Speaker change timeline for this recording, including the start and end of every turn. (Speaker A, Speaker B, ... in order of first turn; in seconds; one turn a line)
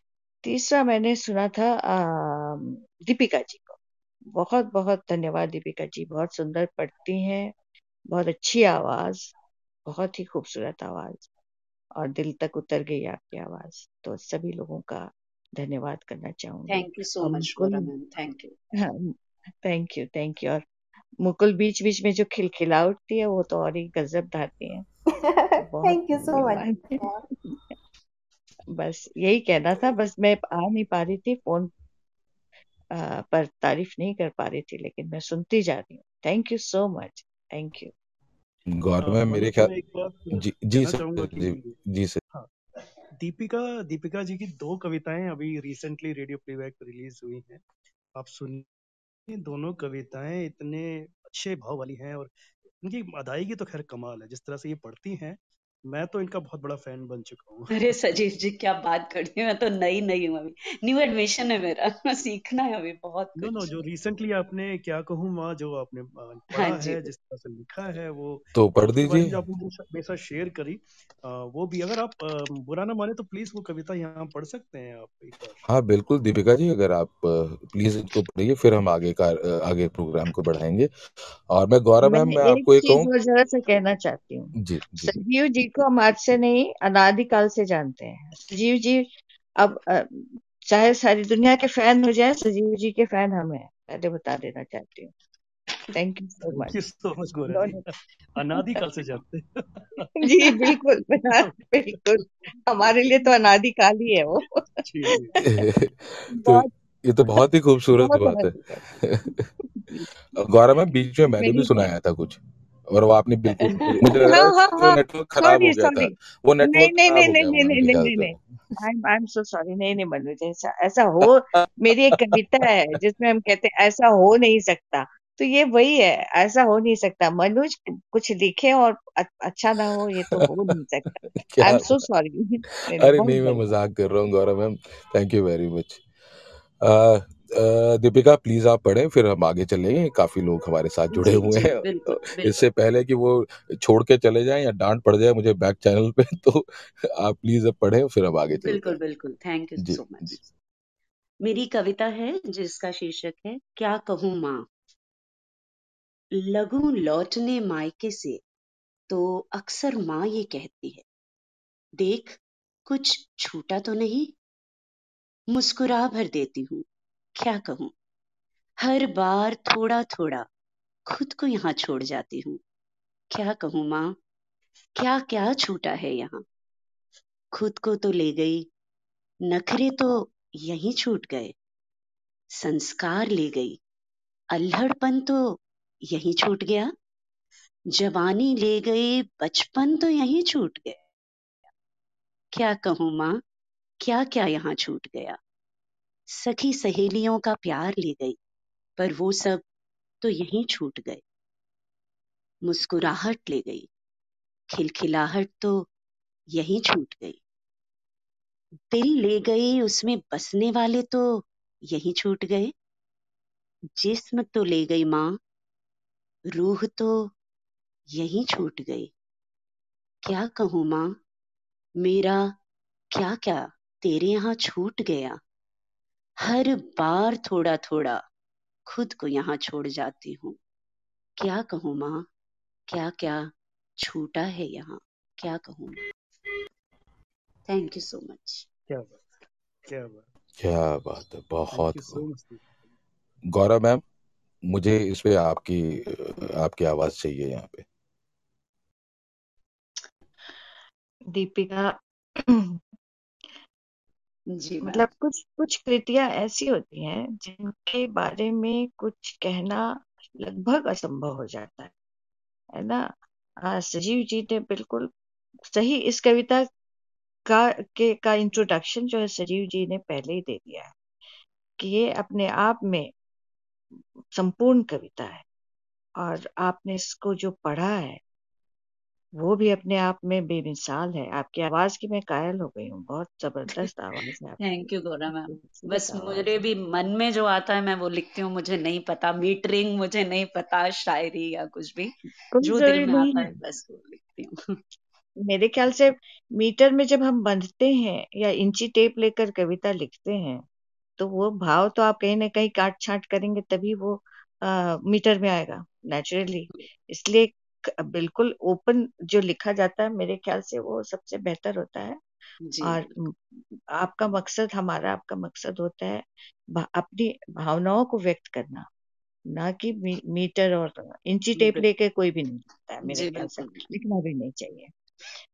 Speaker A: 0.4-3.8
Speaker A: 4.3-7.5
Speaker A: 8.1-9.3
Speaker A: 9.9-11.3
Speaker A: 12.0-16.9
Speaker B: 16.7-18.5
Speaker C: 17.2-17.7
Speaker A: 18.8-20.6
Speaker A: 21.2-24.9
Speaker D: 25.2-27.2
Speaker A: 25.6-27.0
Speaker A: 28.7-31.7
Speaker A: 33.0-37.9
Speaker E: 38.7-39.7
Speaker C: 39.0-41.8
Speaker E: 40.4-42.2
Speaker C: 43.2-47.6
Speaker C: 48.2-48.7
Speaker C: 49.3-57.9
Speaker B: 57.7-63.7
Speaker C: 63.4-75.6
Speaker B: 66.5-67.1
Speaker E: 68.5-69.3
Speaker E: 75.7-80.9
Speaker E: 81.5-83.1
Speaker A: 82.0-89.1
Speaker E: 84.6-85.1
Speaker A: 89.6-95.1
Speaker A: 95.9-96.8
Speaker C: 96.4-100.8
Speaker A: 97.5-97.8
Speaker A: 98.5-98.9
Speaker A: 100.2-105.5
Speaker C: 101.3-102.2
Speaker C: 104.8-105.4
Speaker E: 105.4-109.4
Speaker A: 106.3-106.7
Speaker A: 108.0-108.9
Speaker E: 110.3-112.4
Speaker A: 111.3-111.9
Speaker E: 112.9-118.3
Speaker A: 114.1-133.7
Speaker E: 121.5-122.7
Speaker E: 131.3-131.9
Speaker E: 133.0-136.0
Speaker E: 136.8-149.0
Speaker B: 141.1-142.6
Speaker B: 148.6-150.4
Speaker E: 149.8-150.4
Speaker B: 151.4-154.7
Speaker B: 156.4-158.4
Speaker B: 159.1-161.0
Speaker B: 162.0-164.3
Speaker B: 165.5-166.8
Speaker B: 167.4-167.9
Speaker B: 168.8-170.5
Speaker B: 171.1-172.6
Speaker B: 173.3-174.1
Speaker B: 175.0-176.4
Speaker B: 177.5-178.7
Speaker B: 179.5-181.5
Speaker B: 182.6-183.8
Speaker B: 184.5-185.6
Speaker B: 186.1-186.9
Speaker B: 187.9-191.0
Speaker B: 192.5-193.4
Speaker B: 194.0-195.4
Speaker B: 196.3-198.4
Speaker B: 199.0-199.6
Speaker B: 200.2-201.2
Speaker B: 202.6-203.9
Speaker B: 204.7-205.9
Speaker B: 206.5-207.4
Speaker B: 208.9-212.7
Speaker B: 214.0-215.3
Speaker B: 216.5-217.3
Speaker B: 218.1-219.1
Speaker B: 220.2-221.2
Speaker B: 222.0-222.5
Speaker B: 223.1-225.4
Speaker B: 226.4-228.2
Speaker B: 228.8-230.6
Speaker B: 231.4-232.2
Speaker B: 232.9-233.5
Speaker B: 234.0-236.0
Speaker B: 237.7-238.7
Speaker C: 238.9-240.3
Speaker E: 240.6-242.2
Speaker C: 241.7-242.6
Speaker E: 243.5-244.0
Speaker E: 244.7-247.8
Speaker A: 251.3-252.8
Speaker B: 254.6-255.0
Speaker A: 254.8-259.9
Speaker A: 260.4-261.9
Speaker A: 262.8-263.1
Speaker A: 263.6-265.1
Speaker A: 265.7-266.6
Speaker A: 267.5-270.9
Speaker A: 271.8-273.1
Speaker A: 274.3-275.4
Speaker A: 276.2-278.2
Speaker A: 279.4-284.6
Speaker B: 284.6-294.5
Speaker A: 285.3-286.6
Speaker A: 292.5-293.6
Speaker A: 295.4-300.6
Speaker A: 301.2-312.2
Speaker B: 312.7-313.0
Speaker A: 312.8-318.9
Speaker A: 319.5-324.9
Speaker B: 321.6-321.8
Speaker B: 323.0-323.9